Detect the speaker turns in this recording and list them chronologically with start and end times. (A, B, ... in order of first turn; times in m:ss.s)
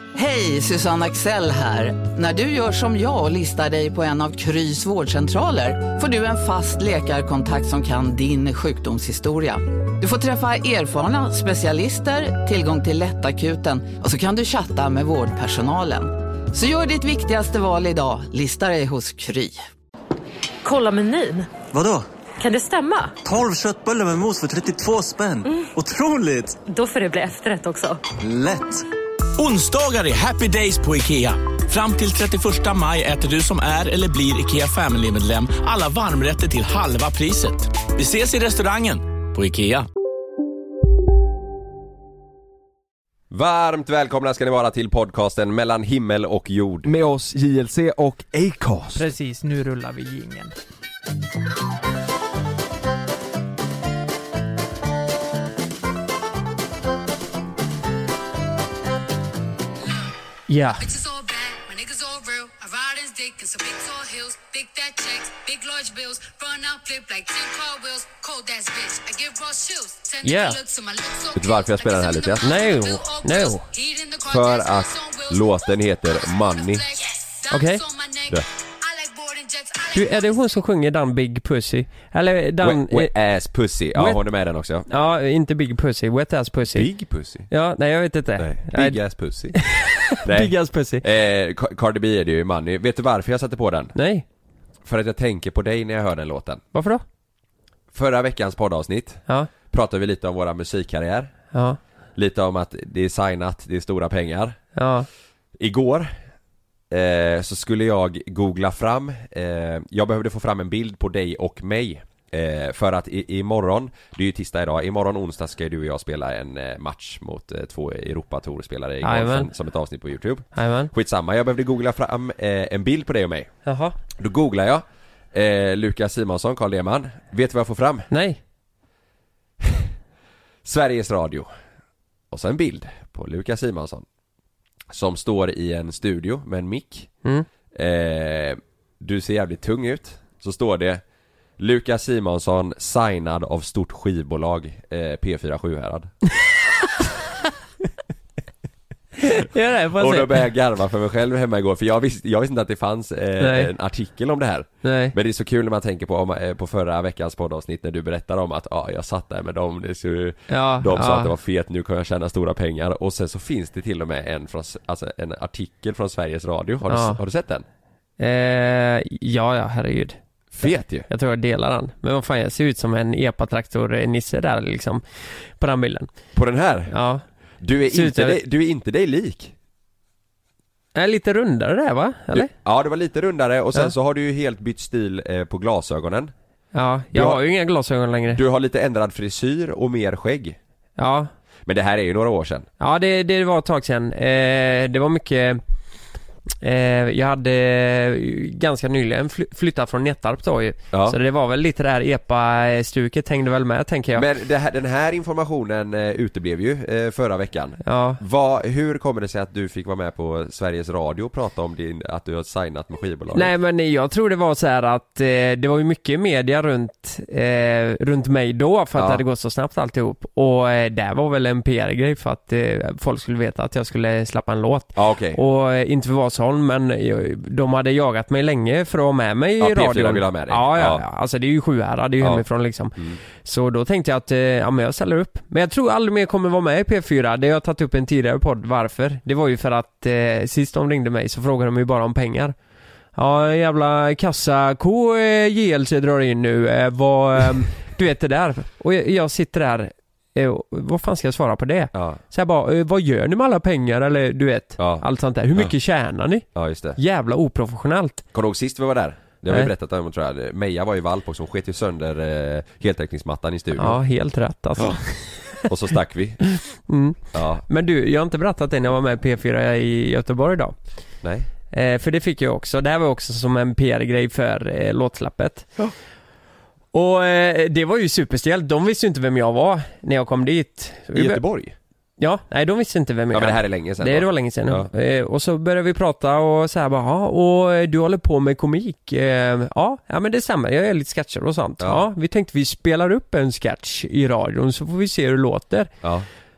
0:00.2-0:19.6 A
0:20.6-0:21.6 B
0:21.7-0:22.1 C
0:22.4-0:23.2 B
0:23.2-0:26.6 C
0:26.6-0:28.0 B
0:28.2-0:28.9 C
0:29.4-0:39.9 D
0:43.3-0:46.9 E
0:46.8-0:49.1 F
0:49.0-0:50.5 G
0:59.8-1:00.1 H
1:00.5-1:00.8 G
1:00.7-1:15.7 H
1:10.2-1:10.6 G
1:11.3-1:12.5 E
1:12.4-1:13.6 G
1:14.3-1:16.9 E
1:16.2-1:20.4 H
1:17.5-1:17.8 G
1:20.0-1:23.1 G
1:22.6-1:24.9 E
1:24.0-1:24.2 G
1:24.9-1:26.9 G
1:26.7-1:27.5 E
1:27.5-1:29.0 G
1:28.4-1:29.6 E
1:29.6-1:31.0 G
1:30.2-1:34.0 E
1:34.0-1:34.2 G
1:34.8-1:36.6 E
1:36.7-1:37.0 G
1:37.9-1:41.3 E
1:41.5-1:41.8 G
1:42.2-1:44.6 E
1:44.8-1:45.1 G
1:45.6-1:46.2 E
1:46.9-2:03.5 E
1:59.0-1:59.5 G
2:00.6-2:00.9 G
2:03.7-2:04.0 G
2:04.2-2:08.1 E
2:08.1-2:08.4 G
2:09.6-2:09.9 E
2:10.6-2:11.5 E
2:12.3-2:14.1 E
2:14.9-2:17.1 E
2:17.7-2:21.0 E
2:21.6-2:26.1 E
2:29.2-2:30.4 G
2:30.0-2:47.6 E
2:33.4-2:33.7 G
2:34.8-2:35.1 G
2:40.5-2:41.3 G
2:46.9-2:47.2 G
2:48.2-2:55.0 G
2:50.5-2:51.1 E
2:55.6-2:56.1 G
2:56.3-2:56.9 E
2:56.9-2:57.2 G
2:57.6-2:59.5 E
2:57.9-2:58.4 G
3:01.0-3:02.5 G
3:02.3-3:06.3 E
3:06.7-3:08.4 G
3:07.1-3:07.4 E
3:08.3-3:10.6 E
3:11.0-3:11.3 G
3:11.7-3:12.7 E
3:12.8-3:15.6 G
3:16.6-3:24.3 G
3:20.9-3:21.2 E
3:24.1-3:33.5 E
3:27.8-3:28.2 G
3:33.3-4:02.6 G
3:39.0-3:39.2 E
3:45.0-3:45.4 E
3:49.6-3:51.0 E
4:03.2-4:16.5 G
4:11.9-4:12.2 E
4:14.8-4:15.0 E
4:16.6-4:17.0 E
4:17.0-4:18.2 G
4:18.3-4:24.0 E
4:23.8-4:25.6 G
4:25.7-4:26.4 E
4:26.5-4:30.8 G
4:27.3-4:27.6 E
4:31.2-4:31.5 E
4:31.7-4:35.7 G
4:36.9-4:41.4 G
4:41.1-4:41.8 E
4:42.2-4:55.9 G
4:43.3-4:44.9 E